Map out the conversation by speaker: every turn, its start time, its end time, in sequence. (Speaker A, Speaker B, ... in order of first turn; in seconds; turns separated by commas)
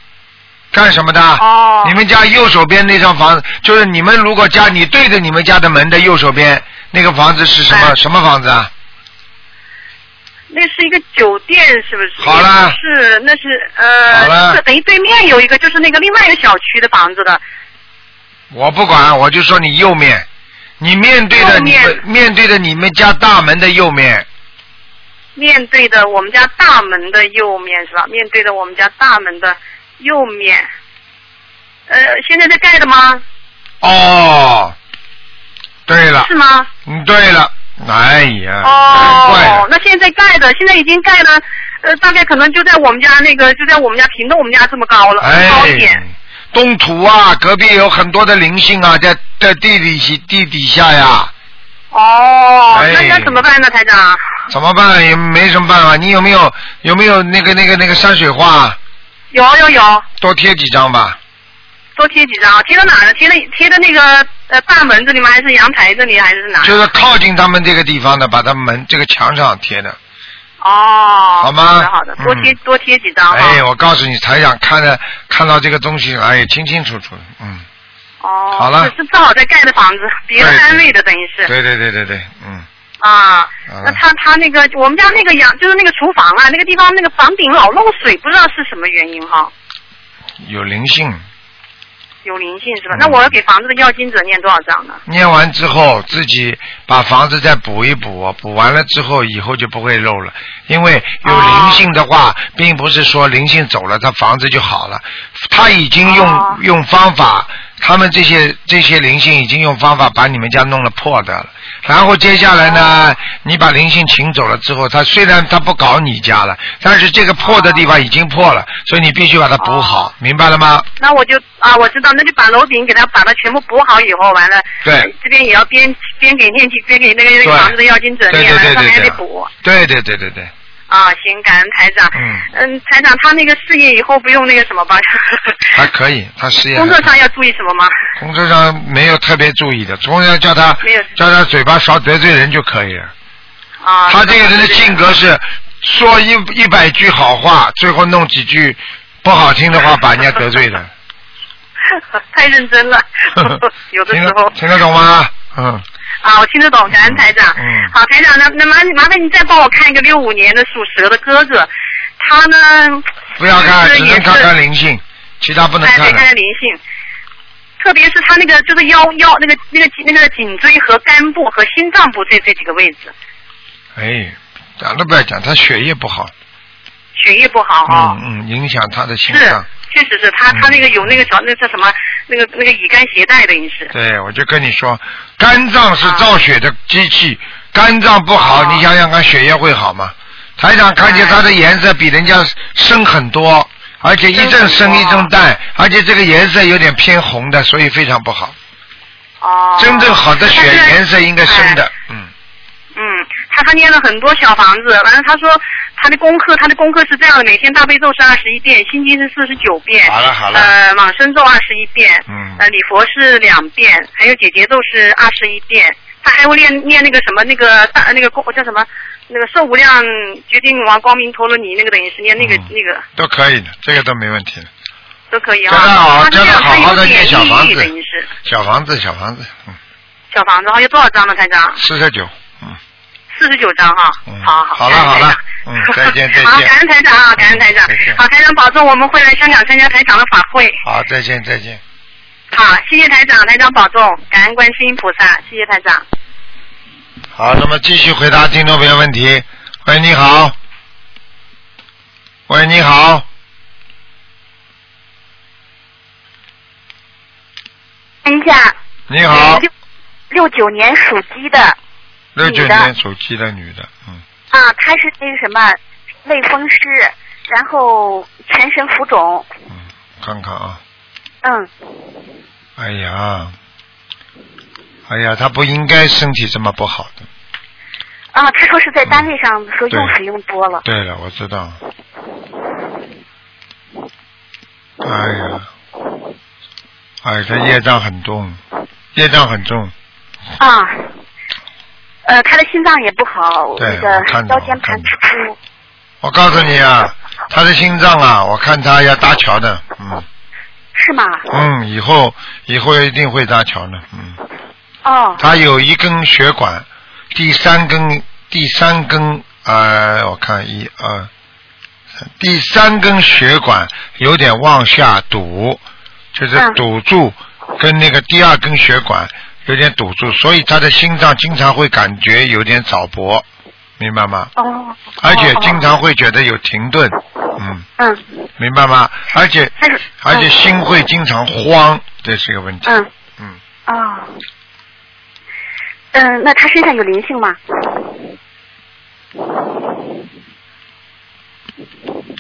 Speaker A: 0.7-8.7, Speaker B: 1.4-2.0, Speaker B: 7.7-8.0, Speaker B: 10.5-17.4, Speaker A: 12.2-12.8, Speaker A: 14.1-14.6, Speaker A: 18.5-20.3, Speaker A: 20.8-24.3, Speaker B: 21.4-22.0, Speaker B: 25.4-30.7, Speaker B: 31.9-33.2, Speaker A: 33.8-34.8, Speaker A: 35.9-36.3, Speaker B: 36.2-36.7, Speaker A: 36.9-39.7, Speaker B: 38.6-46.0, Speaker A: 45.2-51.3, Speaker B: 51.9-54.2, Speaker A: 52.7-53.4, Speaker A: 54.5-58.8, Speaker B: 59.3-60.0, Speaker A: 60.2-61.2, Speaker B: 62.0-66.8, Speaker A: 66.6-70.0, Speaker B: 70.6-73.6, Speaker A: 71.4-72.5, Speaker A: 73.3-77.7, Speaker B: 78.2-81.5, Speaker A: 78.6-78.9, Speaker A: 80.4-80.8, Speaker A: 81.5-82.7, Speaker B: 83.0-89.5, Speaker A: 83.7-84.0, Speaker A: 90.4-91.2, Speaker B: 92.2-95.0, Speaker A: 92.9-93.3, Speaker A: 95.1-120.9, Speaker B: 101.2-101.8, Speaker B: 106.0-106.6, Speaker B: 112.6-113.2, Speaker B: 117.4-117.8, Speaker B: 119.6-120.1, Speaker B: 121.0-129.5, Speaker A: 124.8-125.1, Speaker A: 127.4-127.8, Speaker A: 128.3-130.5, Speaker B: 130.9-135.7, Speaker A: 132.1-132.5, Speaker A: 135.7-137.1, Speaker B: 136.7-137.9, Speaker A: 138.2-143.1, Speaker B: 140.8-141.1, Speaker B: 143.8-145.0, Speaker A: 144.1-150.9, Speaker B: 151.9-154.5, Speaker A: 154.1-155.8, Speaker B: 156.2-164.5, Speaker A: 156.9-157.9, Speaker A: 163.4-166.2, Speaker B: 165.8-166.8, Speaker B: 167.8-173.1, Speaker A: 173.9-176.3, Speaker B: 177.2-178.2, Speaker A: 177.9-179.7, Speaker B: 179.3-183.9, Speaker A: 180.5-181.2, Speaker A: 183.9-198.6, Speaker B: 186.0-186.3, Speaker B: 188.4-188.9, Speaker B: 191.0-191.4, Speaker B: 194.3-195.3, Speaker B: 199.4-201.8, Speaker A: 199.8-202.3, Speaker B: 203.0-223.0, Speaker A: 210.0-210.7, Speaker A: 212.3-212.6, Speaker A: 222.4-224.7, Speaker B: 225.3-228.3, Speaker A: 225.7-227.9, Speaker A: 228.4-229.8, Speaker B: 230.3-231.8, Speaker A: 231.8-232.8, Speaker B: 233.3-240.8, Speaker A: 234.3-236.7, Speaker A: 237.4-238.2, Speaker A: 240.8-241.8, Speaker B: 242.5-246.1, Speaker A: 247.3-250.6, Speaker A: 252.5-253.3, Speaker C: 258.2-258.8, Speaker A: 259.1-259.6, Speaker C: 259.3-259.7, Speaker C: 260.3-261.8, Speaker A: 262.4-264.2, Speaker C: 262.4-262.9, Speaker C: 264.5-269.5, Speaker A: 269.7-270.8, Speaker C: 271.4-271.7, Speaker A: 272.8-273.5, Speaker A: 275.1-277.3, Speaker C: 278.3-280.8, Speaker A: 280.8-281.8, Speaker A: 285.0-285.7, Speaker A: 287.2-288.6, Speaker A: 289.1-289.9, Speaker C: 290.6-291.1, Speaker C: 292.3-295.6, Speaker A: 293.8-295.1, Speaker A: 296.2-300.2, Speaker C: 300.9-301.5, Speaker A: 301.5-304.4, Speaker C: 305.0-305.4, Speaker A: 305.4-311.3, Speaker A: 312.3-315.8, Speaker A: 316.3-323.4, Speaker A: 324.0-324.5, Speaker C: 324.6-325.9, Speaker A: 325.2-327.9, Speaker C: 328.0-328.2, Speaker A: 328.6-333.6, Speaker C: 329.8-330.5, Speaker C: 333.9-334.4, Speaker C: 336.1-338.1